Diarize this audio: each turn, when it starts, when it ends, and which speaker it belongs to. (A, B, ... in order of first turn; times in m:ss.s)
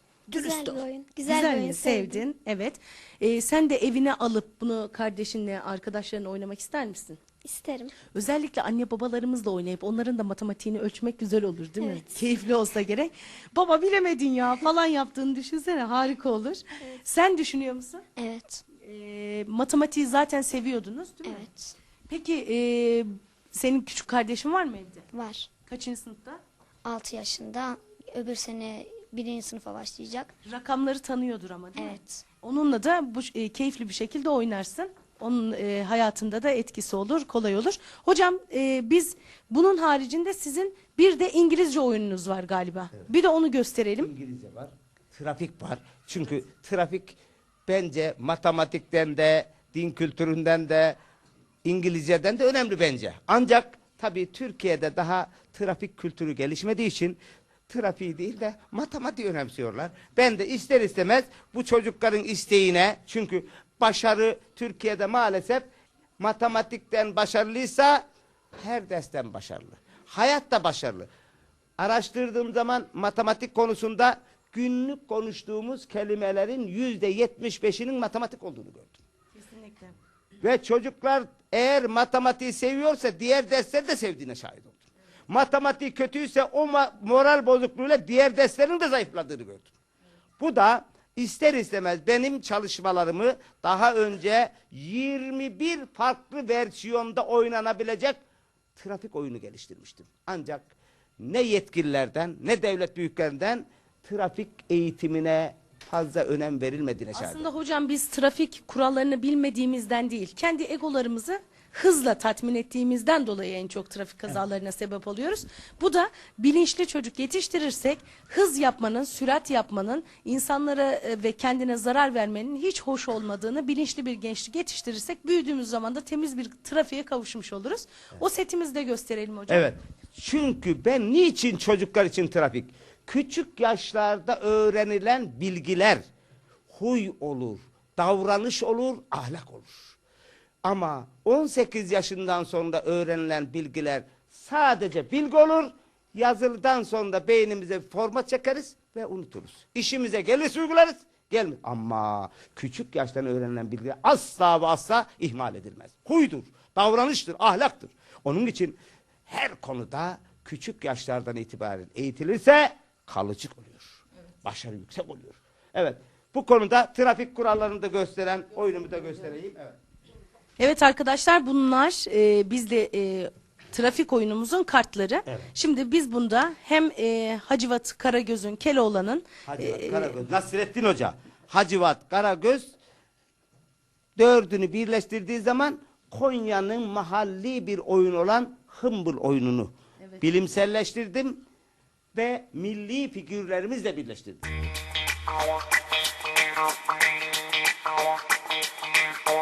0:00.3-0:02.2 A
0:00.3-0:07.2 B
0:07.4-0:08.0 A
0:08.1-0:18.0 B
0:11.8-0:12.1 A
0:18.2-0:18.6 A
0:18.8-0:21.5 B
0:21.3-0:21.7 A
0:22.1-0:25.0 B
0:25.1-0:25.5 A
0:25.7-0:26.4 B
0:26.8-0:30.3 A
0:30.4-0:44.1 B
0:31.8-0:32.2 A
0:44.0-0:51.0 C
0:51.6-1:05.6 C
1:06.2-1:08.0 C
1:08.6-1:11.1 C
1:11.8-1:19.0 C
1:19.4-1:20.0 B
1:20.4-1:29.7 C
1:30.4-1:38.2 C
1:38.8-1:47.5 C
1:47.2-2:09.6 B
2:09.5-2:16.0 C
2:16.7-2:19.9 C
2:20.6-2:43.9 C
2:44.4-2:49.8 C
2:50.6-3:00.2 B
2:59.5-3:02.8 C
3:04.2-3:11.4 C
3:10.0-3:10.3 B
3:12.2-3:14.5 C